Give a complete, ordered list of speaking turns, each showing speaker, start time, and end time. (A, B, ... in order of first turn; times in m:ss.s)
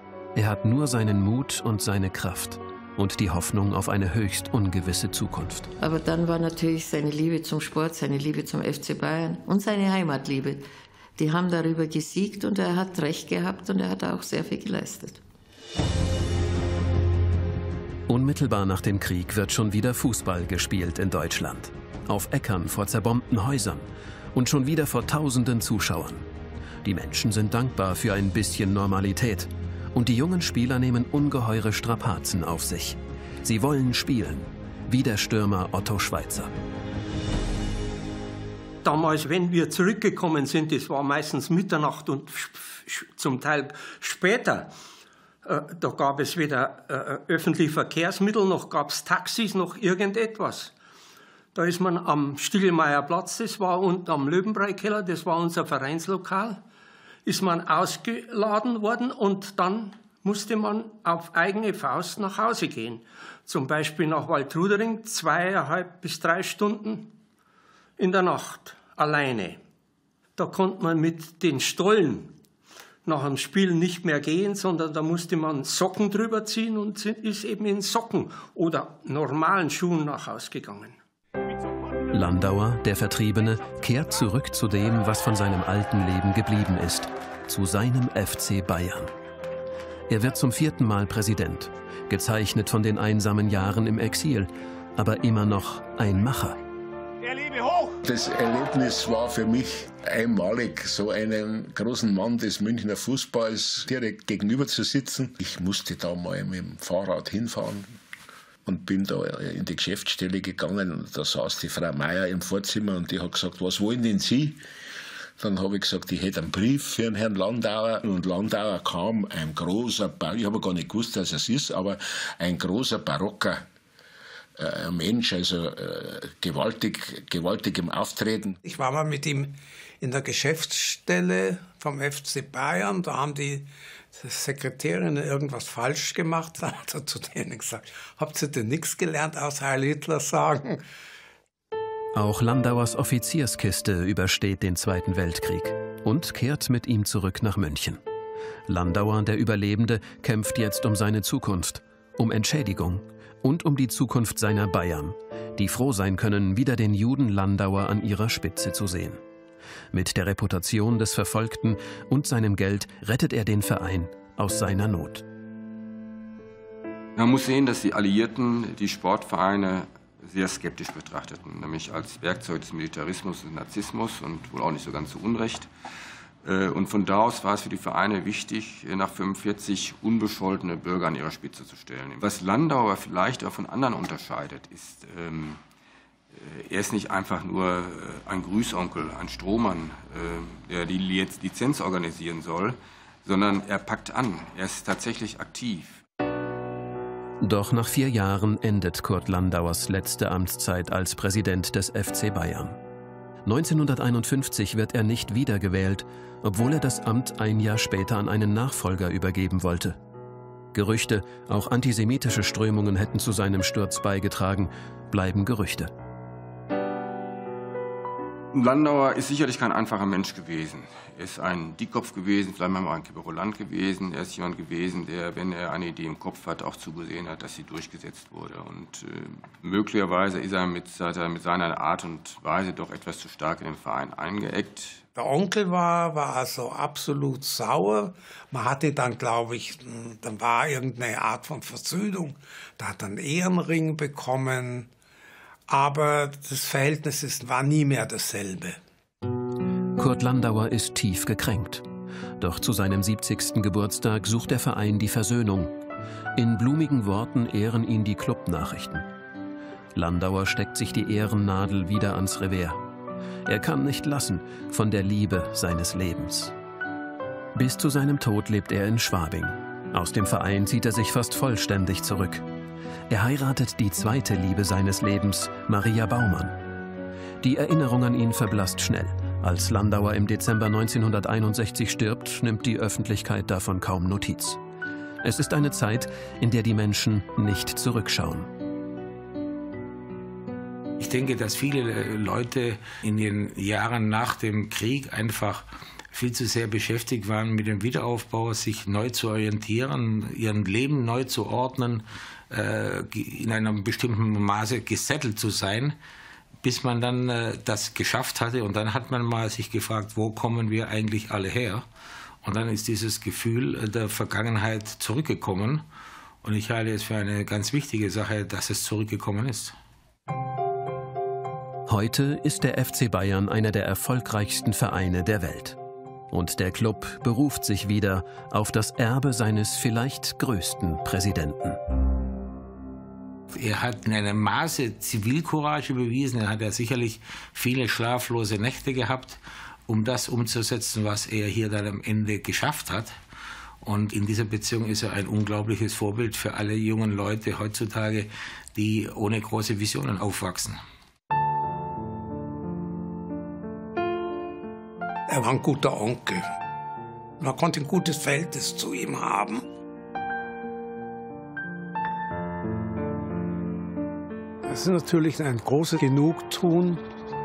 0:00.3-0:05.7 A
0:05.8-0:10.6 B
0:11.2-0:15.2 B
0:18.1-0:26.2 A
0:26.8-0:36.5 A
0:38.8-0:44.7 C
0:45.4-0:50.7 C
0:51.5-0:56.6 C
0:57.2-1:07.1 C
1:08.0-1:09.6 C
1:10.4-1:12.3 C
1:13.0-1:21.0 C
1:22.1-1:29.1 A
1:30.1-1:36.6 A
1:38.0-1:48.0 D
1:48.6-1:54.6 D
1:55.4-2:03.6 D
2:04.6-2:08.5 D
2:08.6-2:20.8 E
2:22.1-2:28.0 A
2:28.7-2:39.2 A
2:39.9-2:45.2 A
2:47.2-2:55.7 F
2:56.4-3:05.6 F
3:06.3-3:16.0 F
3:17.4-3:22.8 A
3:23.4-3:30.0 A
3:30.7-3:35.9 A
3:38.5-3:55.0 F
3:55.2-4:04.9 E
4:05.7-4:08.8 E
4:10.0-4:11.8 A
4:12.4-4:15.7 A
4:16.4-4:19.1 A
4:19.9-4:22.8 A
4:23.4-4:26.5 A
4:27.5-4:32.4 A
4:33.1-4:36.6 A
4:37.4-4:44.6 A
4:45.2-4:48.5 A
4:51.0-5:06.0 G
5:06.6-5:11.8 G
5:12.4-5:15.8 G
5:16.4-5:19.8 G
5:21.9-5:25.8 A
5:26.3-5:31.8 A
5:33.5-5:43.2 G
5:43.8-5:50.8 G
5:55.3-5:56.4 E
5:57.4-5:59.6 E
6:04.6-6:07.0 E